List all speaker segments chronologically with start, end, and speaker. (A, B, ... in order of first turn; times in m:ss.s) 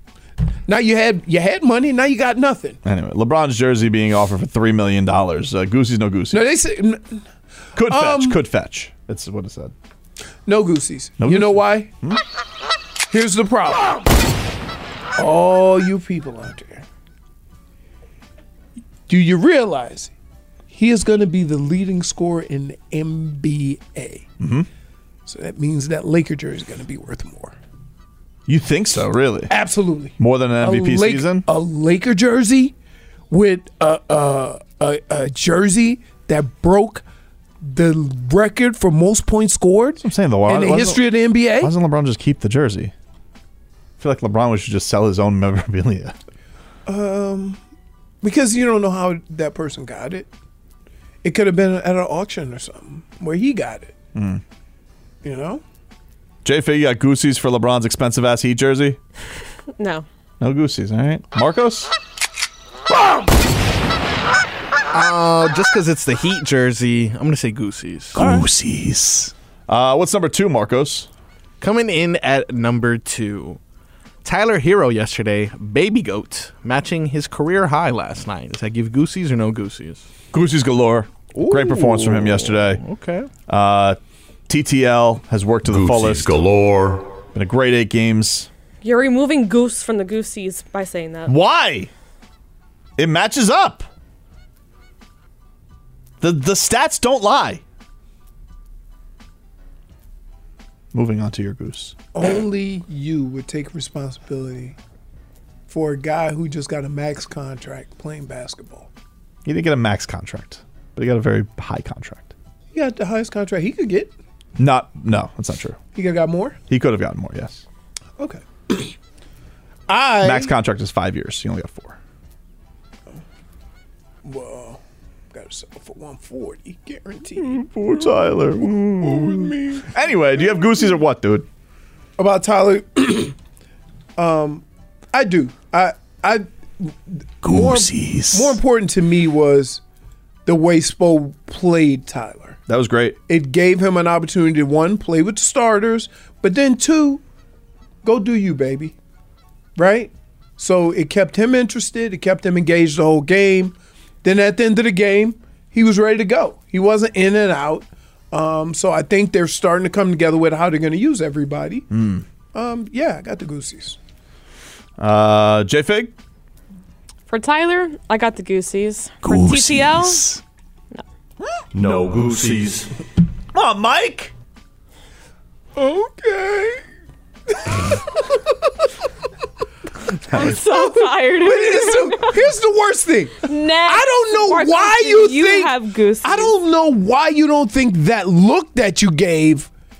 0:00.7-0:02.8 A
0:02.8-0:06.4 B
0:06.3-0:07.2 A
0:07.8-0:09.7 B
0:07.8-0:08.4 A
0:10.5-0:11.9 A
0:11.2-0:12.2 B
0:13.1-0:14.0 A
0:15.2-0:16.8 A
0:19.1-0:20.1 A
0:20.7-0:24.3 A
0:24.4-0:24.7 B
0:25.3-0:27.6 A
0:28.5-0:29.5 B
0:29.5-0:32.8 A
0:30.2-0:31.5 B
0:33.3-0:37.0 A
0:37.6-0:41.7 A
0:40.0-0:42.9 B
0:44.0-0:46.1 B
0:46.9-0:47.6 A
0:48.2-0:50.3 A
0:51.2-0:54.0 A
0:54.2-0:54.4 B
0:55.2-0:55.6 A
0:56.4-0:59.0 B
0:59.8-1:00.1 C
1:00.4-1:01.9 B
1:04.9-1:08.4 D
1:08.2-1:11.1 B
1:11.6-1:13.6 D
1:14.2-1:20.1 D
1:20.3-1:22.8 B
1:21.3-1:23.3 D
1:23.5-1:26.4 B
1:25.6-1:27.1 E
1:27.3-1:28.5 B
1:28.8-1:31.4 C
1:31.3-1:31.9 B
1:33.0-1:33.9 B
1:36.2-1:37.6 B
1:40.9-1:42.0 B
1:42.1-1:44.8 A
1:45.7-1:48.9 A
1:49.4-1:52.3 B
1:52.7-1:54.1 A
1:54.6-1:55.8 B
1:56.0-1:56.6 A
1:56.7-1:57.6 B
1:58.2-1:58.9 A
1:59.9-2:00.5 A
2:00.2-2:02.0 B
2:04.2-2:04.8 A
2:05.3-2:07.6 A
2:07.4-2:11.5 B
2:09.0-2:09.7 A
2:12.2-2:13.4 A
2:14.2-2:19.8 A
2:17.4-2:18.6 B
2:20.5-2:22.6 A
2:22.7-2:23.2 B
2:23.3-2:27.2 A
2:28.0-2:29.0 A
2:29.8-2:41.9 A
2:41.9-2:42.2 B
2:42.5-2:44.0 A
2:45.0-2:46.1 B
2:47.3-2:50.4 C
2:49.2-2:50.4 B
2:51.7-2:52.9 E
2:53.5-2:54.3 B
2:55.8-2:56.8 A
2:57.6-2:58.4 A
3:00.3-3:02.4 C
3:00.3-3:09.7 A
3:03.4-3:06.6 C